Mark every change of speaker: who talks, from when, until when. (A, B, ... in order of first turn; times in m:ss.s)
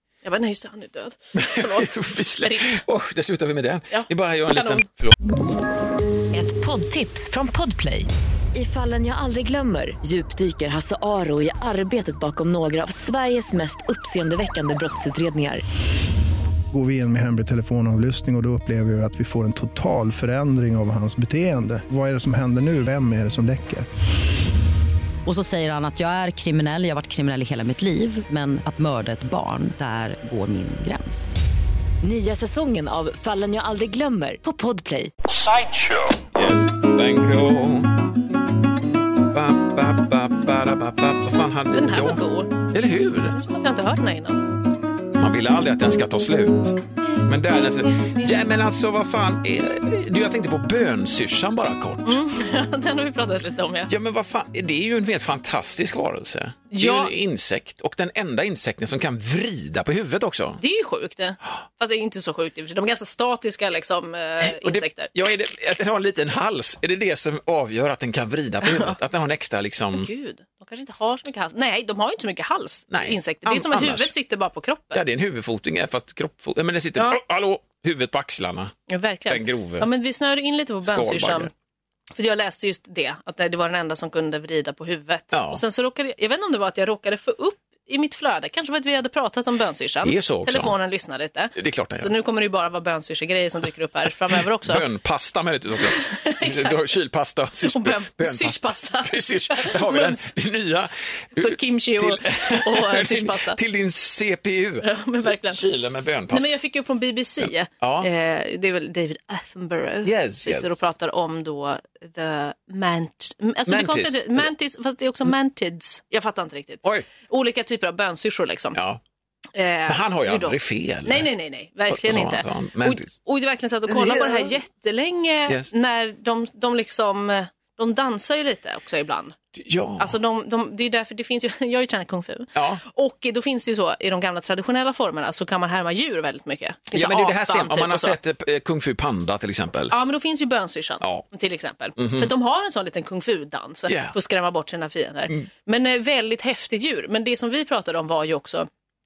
0:00.2-0:02.8 A
0:01.3-0:05.2 B
0:03.9-0:04.8 A
0:06.3-0:15.6 C
0:16.7-0:23.9 D
0:25.3-0:31.4 E
0:32.0-0:35.1 C
0:36.1-0:38.0 B
0:39.3-0:43.4 B
0:41.7-0:42.6 A
0:43.3-0:44.4 A
0:45.2-0:52.2 B
0:52.0-0:53.9 A
0:53.9-1:00.6 B
0:56.7-0:57.1 A
1:00.6-1:05.1 A
1:04.4-1:10.1 B
1:08.6-1:09.0 A
1:09.9-1:15.0 A
1:12.9-1:14.1 B
1:14.9-1:18.7 B
1:18.9-1:21.5 A
1:19.3-1:19.9 B
1:20.8-1:21.5 B
1:22.2-1:34.8 A
1:25.3-1:25.6 B
1:30.0-1:30.8 B
1:31.6-1:32.1 B
1:34.6-1:46.5 B
1:35.8-1:37.0 A
1:37.6-1:40.3 A
1:41.4-1:43.6 A
1:44.8-1:45.6 A
1:46.3-1:58.8 A
1:47.4-1:48.1 B
1:50.0-1:50.8 B
1:53.7-1:54.5 B
1:58.8-1:59.0 B
1:59.6-2:09.4 A
1:59.9-2:01.3 B
2:01.9-2:03.1 B
2:03.9-2:04.5 B
2:09.6-2:10.2 B
2:10.0-2:18.2 A
2:12.6-2:12.8 B
2:16.9-2:20.0 B
2:19.9-2:28.7 A
2:22.0-2:22.3 B
2:23.9-2:24.2 B